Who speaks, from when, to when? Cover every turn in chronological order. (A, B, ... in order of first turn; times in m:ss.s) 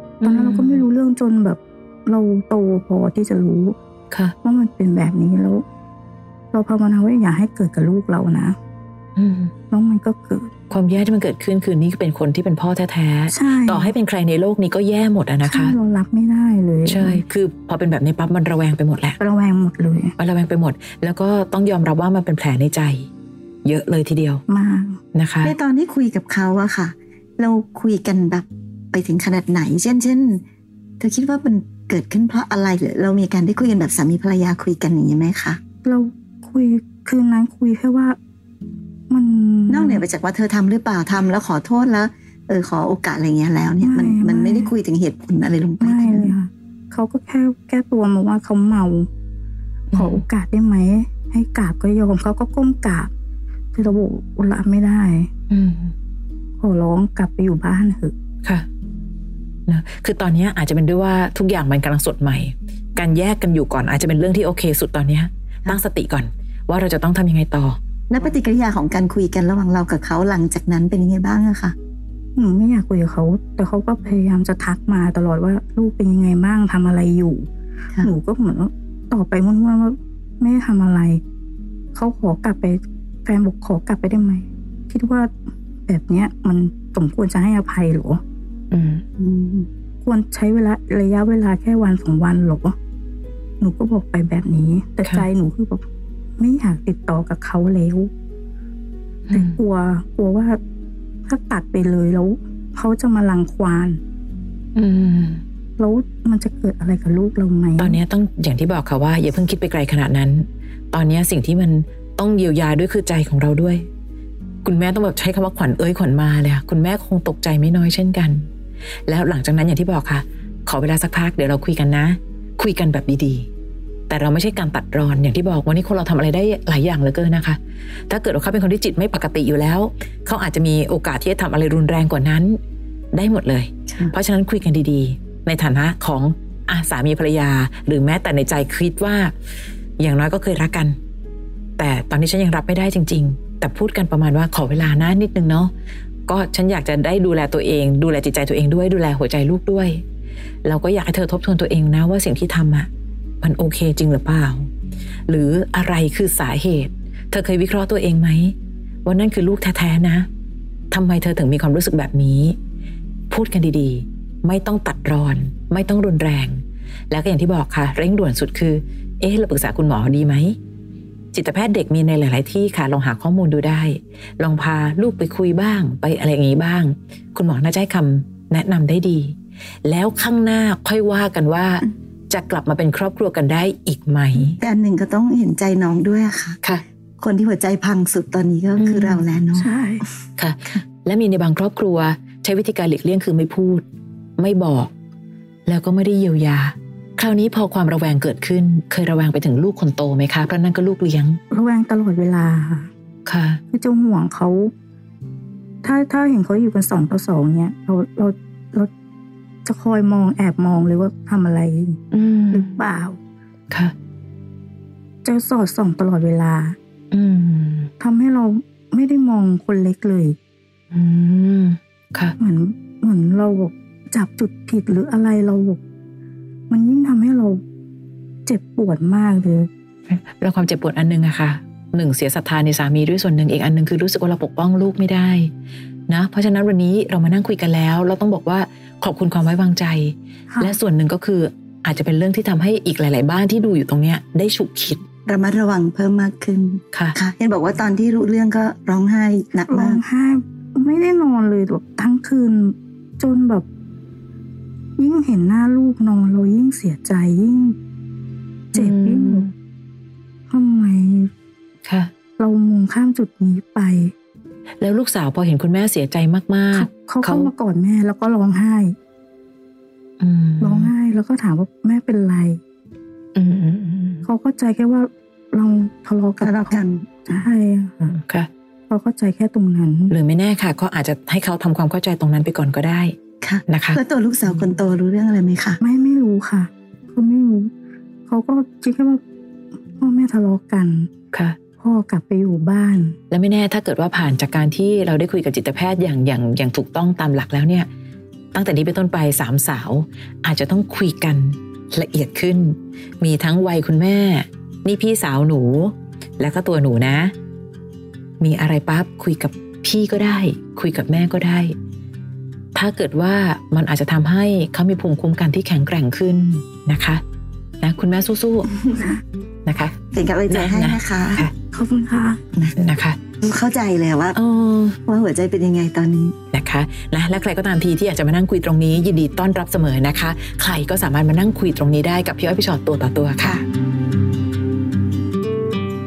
0:00.2-0:00.8 A
0:00.2-0:03.8 B
0:04.4-0:05.6 B
0:06.5-0:08.6 B
0:09.2-0:09.5 A
0:09.7-0:10.5 B
0:10.7-0:15.8 A
0:13.3-0:14.0 B
0:15.4-0:17.2 B
0:16.9-0:19.2 A
0:19.2-0:20.2 B
0:20.2-0:23.1 A
0:23.6-0:24.4 A
0:24.5-0:25.0 B
0:25.2-0:25.5 A
0:25.4-0:30.4 C
0:31.0-0:35.6 C
0:35.8-0:38.2 B
0:39.1-0:40.0 B
0:39.7-0:46.4 C
0:43.8-0:44.7 B
0:45.8-0:49.1 B
0:49.9-0:50.2 A
0:49.9-0:53.1 B
0:53.7-0:55.3 B
0:55.5-0:55.9 A
0:56.6-0:58.1 B
0:59.7-1:07.8 A
1:08.1-1:11.8 C
1:12.4-1:17.5 B
1:18.0-1:21.2 B
1:21.9-1:25.3 B
1:25.9-1:28.2 B
1:28.7-1:29.0 A
1:29.2-1:29.7 C
1:30.0-1:32.8 B
1:33.6-1:35.8 B
1:36.4-1:38.1 B
1:39.3-1:39.6 A
1:39.3-1:40.6 B
1:41.3-1:44.0 B
1:44.8-1:45.4 A
1:45.8-1:48.0 B
1:47.8-1:53.9 A
1:54.6-1:58.5 A
1:59.1-2:03.5 A
2:04.1-2:07.6 A
2:08.1-2:12.6 A
2:13.1-2:19.3 A
2:20.0-2:21.0 A
2:21.8-2:25.7 A
2:26.3-2:30.0 A
2:30.6-2:32.9 A
2:33.4-2:34.7 A
2:35.3-2:40.3 A
2:40.9-2:42.6 A
2:43.3-2:46.6 A
2:47.1-2:50.6 A
2:51.3-3:04.6 A
3:04.4-3:06.6 C
3:07.2-3:09.7 C
3:08.8-3:09.2 A
3:09.6-3:10.0 B
3:10.4-3:13.8 A
3:14.4-3:14.9 A
3:15.7-3:21.4 A
3:21.5-3:22.9 B
3:23.3-3:23.6 A
3:23.7-3:24.7 B
3:25.8-3:28.9 B
3:29.6-3:33.2 B
3:32.1-3:32.8 A
3:35.2-3:36.8 B
3:37.1-3:37.9 A
3:38.0-3:40.4 B
3:40.9-3:42.4 A
3:42.4-3:45.8 B
3:46.7-3:47.6 B
3:48.5-3:49.7 B
3:50.1-3:55.5 A
3:56.1-4:05.0 A
4:00.5-4:00.8 B
4:05.3-4:10.0 C
4:09.7-4:13.7 B
4:15.0-4:17.8 B
4:18.7-4:19.5 A
4:18.7-4:19.5 B
4:20.5-4:21.3 B
4:21.9-4:22.1 A
4:22.4-4:24.1 B
4:24.8-4:27.5 A
4:26.7-4:29.0 B
4:30.2-4:30.9 A
4:30.6-4:32.6 B
4:33.4-4:34.2 A
4:34.2-4:38.1 B
4:36.4-4:37.2 C
4:38.0-4:38.5 A
4:38.9-4:40.2 B
4:40.1-4:43.2 A
4:43.4-4:45.8 C
4:43.7-4:44.6 A
4:45.8-4:47.7 B
4:48.3-4:49.2 B
4:50.0-4:51.1 B
4:51.8-4:53.2 B
4:53.3-4:57.9 A
4:58.5-5:07.3 A
5:08.4-5:11.7 A
5:12.8-5:17.2 A
5:17.8-5:18.9 A
5:19.7-5:20.0 A
5:20.1-5:21.5 C
5:20.5-5:21.5 A
5:21.7-5:22.4 B
5:22.8-5:23.2 A
5:23.4-5:24.4 C
5:24.4-5:25.0 A
5:25.1-5:26.4 C
5:26.5-5:33.6 A